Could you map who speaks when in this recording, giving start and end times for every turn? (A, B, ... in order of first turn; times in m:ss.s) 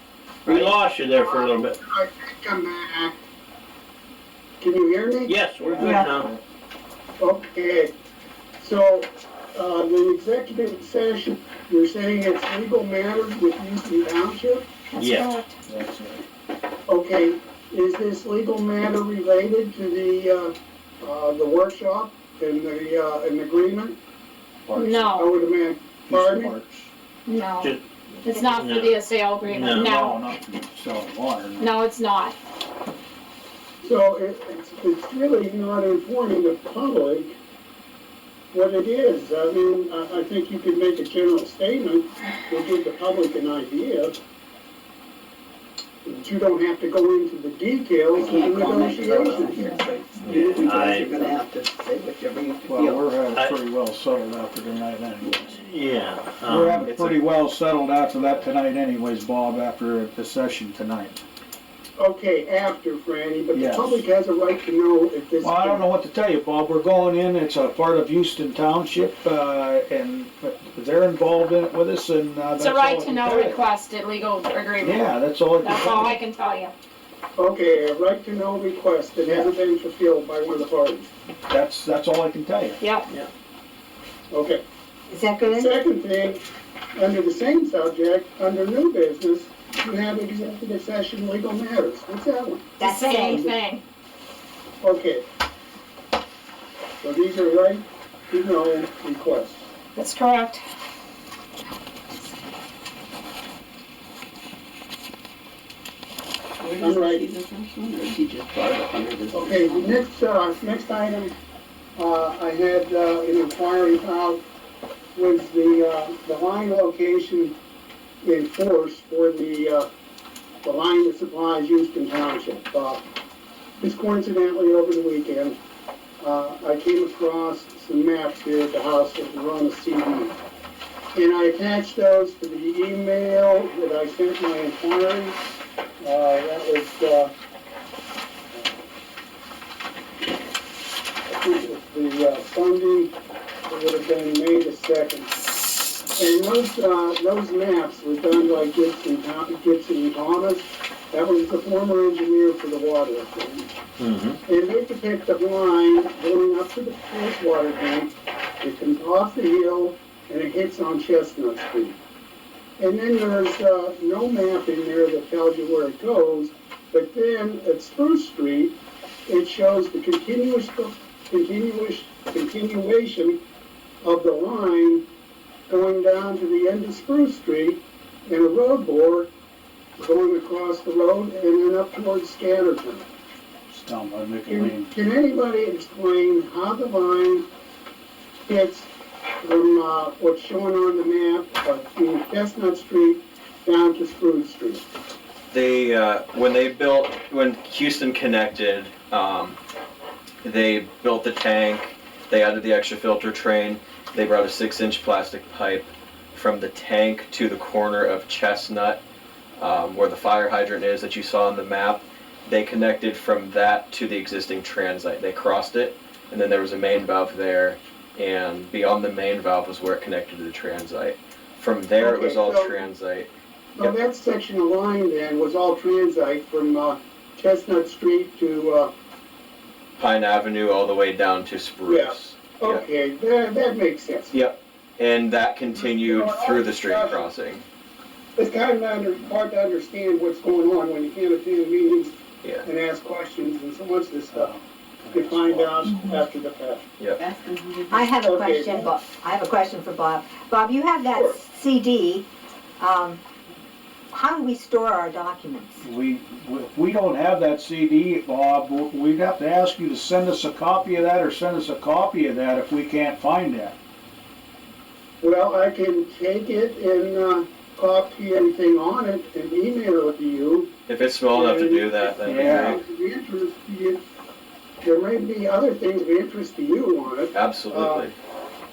0:00.4-0:01.8 A
0:00.5-0:00.7 B
0:01.2-0:03.2 C
0:04.6-0:05.9 C
0:05.2-0:06.3 A
0:05.6-0:06.4 D
0:05.8-0:06.1 B
0:07.2-0:07.9 C
0:08.6-0:14.6 C
0:14.9-0:15.5 E
0:15.0-0:15.4 A
0:15.7-0:16.2 D
0:16.9-0:24.0 C
0:24.7-0:25.1 D
0:24.8-0:25.3 E
0:24.8-0:26.5 C
0:26.1-0:26.9 D
0:27.2-0:30.3 E
0:28.3-0:29.9 A
0:29.5-0:31.6 D
0:31.6-0:32.4 E
0:33.8-0:37.4 C
0:38.5-0:44.2 C
0:46.0-0:49.7 C
0:48.2-0:53.1 B
0:50.2-0:51.1 A
0:50.2-0:51.4 C
0:52.6-0:55.6 D
0:53.3-0:53.6 A
0:55.5-0:56.9 A
0:56.5-1:01.2 D
0:56.8-0:57.3 F
0:58.1-0:58.5 F
1:02.0-1:05.9 C
1:03.5-1:04.0 D
1:05.4-1:13.6 D
1:12.6-1:15.1 E
1:14.8-1:16.2 D
1:15.6-1:16.7 E
1:17.4-1:21.1 C
1:19.2-1:19.5 D
1:21.5-1:22.8 D
1:22.8-1:23.1 E
1:24.3-1:24.6 C
1:25.1-1:25.8 G
1:25.4-1:26.4 C
1:26.9-1:32.7 C
1:32.8-1:33.4 G
1:32.8-1:33.8 E
1:33.3-1:33.5 C
1:34.8-1:35.2 C
1:37.0-1:39.6 C
1:39.9-1:40.6 E
1:46.6-1:50.0 B
1:46.8-1:47.3 C
1:49.3-1:51.3 C
1:52.0-1:54.4 C
1:55.1-1:57.5 C
1:58.2-1:59.9 C
2:00.6-2:03.0 C
2:03.8-2:05.6 C
2:06.2-2:10.4 C
2:11.1-2:15.4 C
2:16.0-2:17.3 C
2:18.5-2:18.8 C
2:21.2-2:23.1 C
2:23.6-2:25.3 C
2:26.2-2:33.7 C
2:34.0-2:34.4 A
2:34.4-2:42.0 C
2:42.8-2:53.4 C
2:54.0-2:55.0 C
2:55.7-2:59.3 C
3:00.0-3:03.1 C
3:03.7-3:04.9 D
3:04.5-3:07.5 C
3:08.4-3:14.8 C
3:15.5-3:19.6 F
3:20.4-3:29.0 F
3:29.6-3:44.0 F
3:42.0-3:42.7 C
3:43.8-3:48.9 C
3:50.0-3:52.8 F
3:51.9-3:54.4 C
3:54.3-3:57.6 F
3:55.7-3:57.2 C
3:58.4-4:04.5 C
4:04.3-4:06.0 D
4:05.1-4:06.9 C
4:07.2-4:08.1 B
4:07.9-4:12.3 G
4:08.2-4:08.9 C
4:12.8-4:13.2 G
4:14.1-4:15.8 G
4:15.8-4:23.8 D
4:25.2-4:30.7 C
4:30.9-4:32.8 F
4:31.3-4:34.0 C
4:32.2-4:32.8 D
4:34.8-4:38.0 C
4:37.3-4:38.1 F